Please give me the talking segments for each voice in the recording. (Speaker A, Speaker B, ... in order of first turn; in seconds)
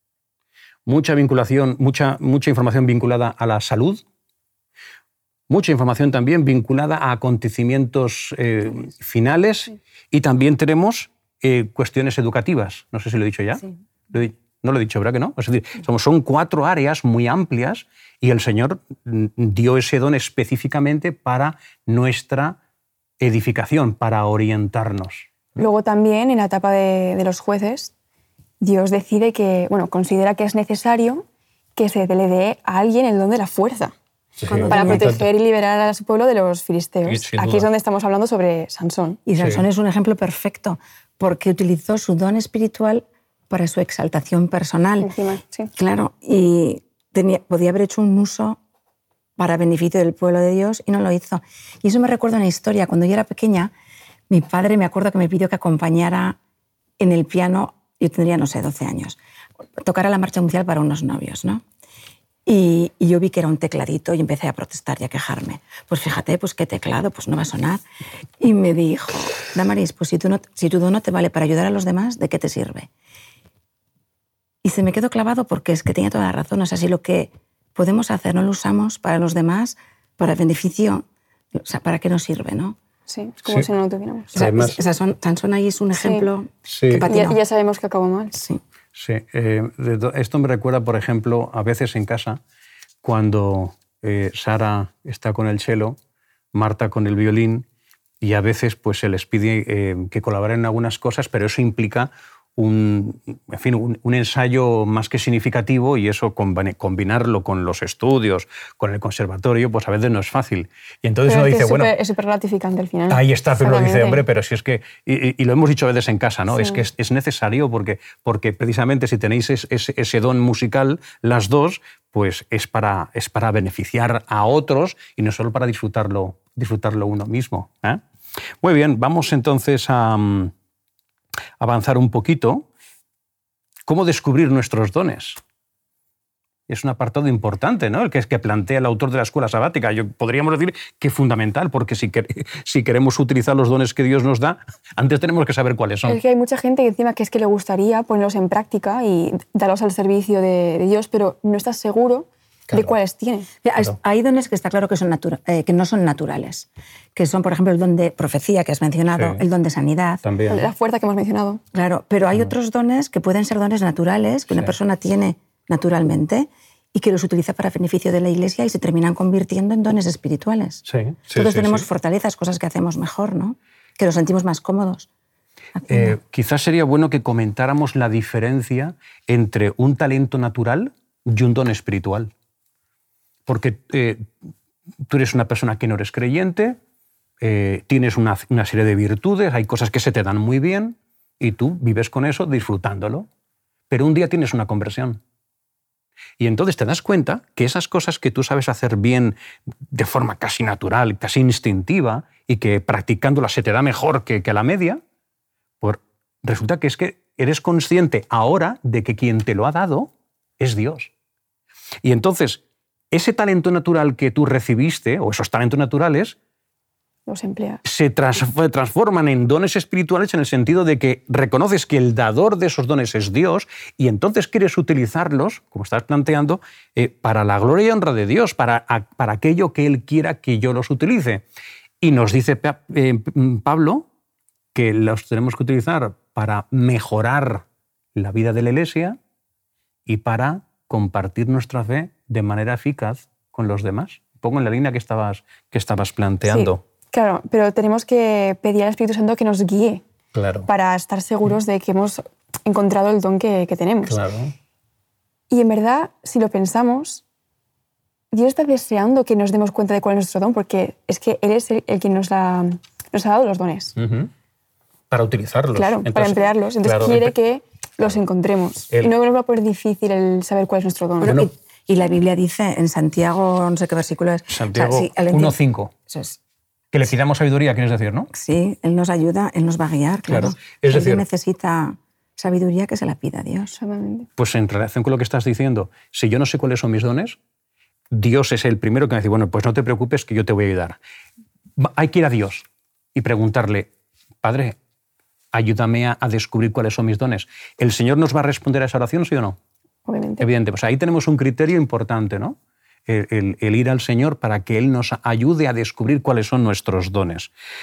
Speaker A: 0.9-4.0, 5.5-22.6, 23.2-25.3, 34.4-35.2, 37.1-37.7, 39.4-39.6, 84.3-84.8, 86.7-87.1, 89.0-92.4, 93.0-96.0, 96.5-97.7, 98.2-111.9, 113.1-128.0, 128.6-130.5, 131.6-132.7, 133.9-135.4, 136.7-146.2, 159.2-159.4, 160.2-160.7, 170.9-171.9, 175.9-182.3, 183.5-184.3, 185.1-186.8, 187.4-193.3, 193.9-195.2, 196.4-199.4, 199.9-205.0, 205.8-211.1, 212.0-216.4, 217.8-231.4, 232.0-234.1, 234.7-239.2, 240.1-246.8, 250.3-250.7, 254.1-254.5, 264.0-264.3, 265.1-267.3, 271.2-271.5, 274.5-275.9, 276.9-278.3, 280.3-281.2, 284.4-287.4, 288.1-291.0, 291.8-293.9, 294.4-294.8, 295.5-299.6, 300.4-307.5
Speaker B: 25.6-27.9, 28.6-33.9, 34.7-39.2, 45.0-45.7, 83.1-84.5, 86.0-86.2, 87.0-88.4, 111.3-114.2, 116.6-116.8, 146.1-153.5, 160.5-161.6, 217.3-217.8, 246.5-250.0, 250.7-254.2, 255.5-257.2, 258.3-264.0, 265.8-271.4, 283.8-284.3, 300.1-300.5
Speaker C: 34.5-35.1, 39.3-45.1, 45.7-48.6, 49.4-53.7, 54.3-56.4, 57.0-59.2, 59.8-61.6, 62.5-67.8, 68.4-72.9, 74.6-82.8, 84.3-87.4, 88.4-88.6, 153.6-160.2, 161.7-175.1, 175.8-176.2, 271.2-275.6, 276.1-276.4, 278.3-283.8